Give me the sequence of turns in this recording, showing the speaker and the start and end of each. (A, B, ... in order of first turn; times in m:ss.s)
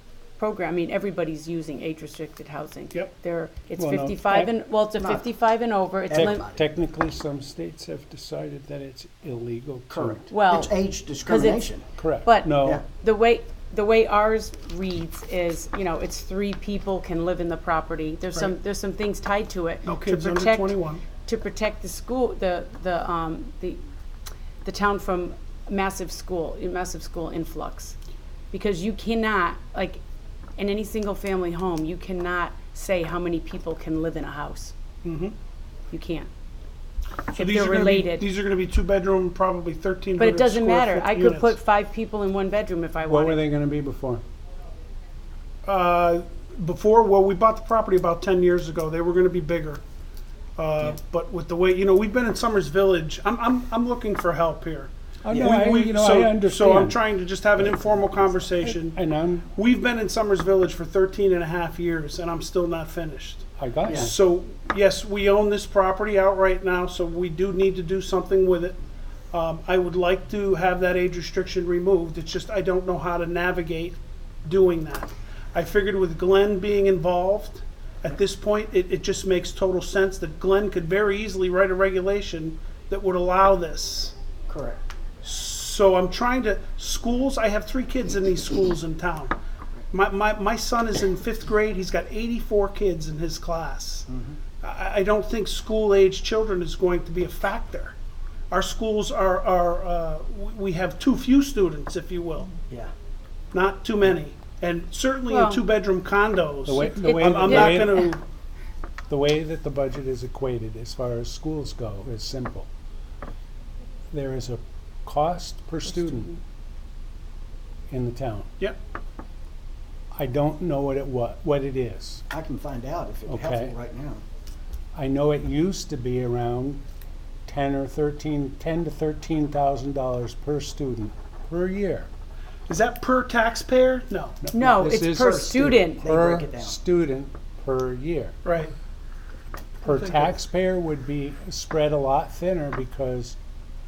0:00.4-0:06.4 A
0:03.8-0:04.5 B
0:05.0-0:05.3 C
0:06.1-0:06.6 C
0:06.1-0:10.3 B
0:09.9-0:11.9 C
0:10.3-0:23.8 A
0:12.0-0:12.8 B
0:19.8-0:21.0 D
0:24.6-0:28.0 A
0:28.5-0:30.0 A
0:30.6-0:34.8 A
0:35.0-0:35.4 D
0:35.9-0:36.3 A
0:37.3-0:38.3 A
0:37.4-0:41.6 D
0:40.2-0:43.4 A
0:43.1-0:44.2 B
0:45.6-0:49.8 D
0:50.6-0:59.0 D
0:55.2-0:57.0 B
0:57.6-0:59.5 B
0:59.6-1:08.8 D
1:03.6-1:04.1 B
1:09.3-1:24.2 D
1:24.5-1:24.8 C
1:25.2-1:29.3 D
1:29.9-1:34.1 D
1:34.1-1:34.4 C
1:34.6-1:38.0 D
1:38.5-1:42.5 D
1:43.5-1:48.2 D
1:45.3-1:45.6 A
1:46.6-1:48.0 B
1:46.8-1:48.1 A
1:49.1-1:52.7 B
1:54.1-1:56.3 B
1:55.9-1:56.4 A
1:57.9-1:58.5 B
2:00.1-2:02.2 B
2:02.3-2:04.2 C
2:03.3-2:03.7 B
2:05.0-2:06.8 B
2:07.5-2:12.1 B
2:12.7-2:14.4 D
2:14.4-2:18.4 B
2:14.5-2:16.1 A
2:14.6-2:16.8 C
2:18.4-2:18.7 D
2:19.8-2:23.4 B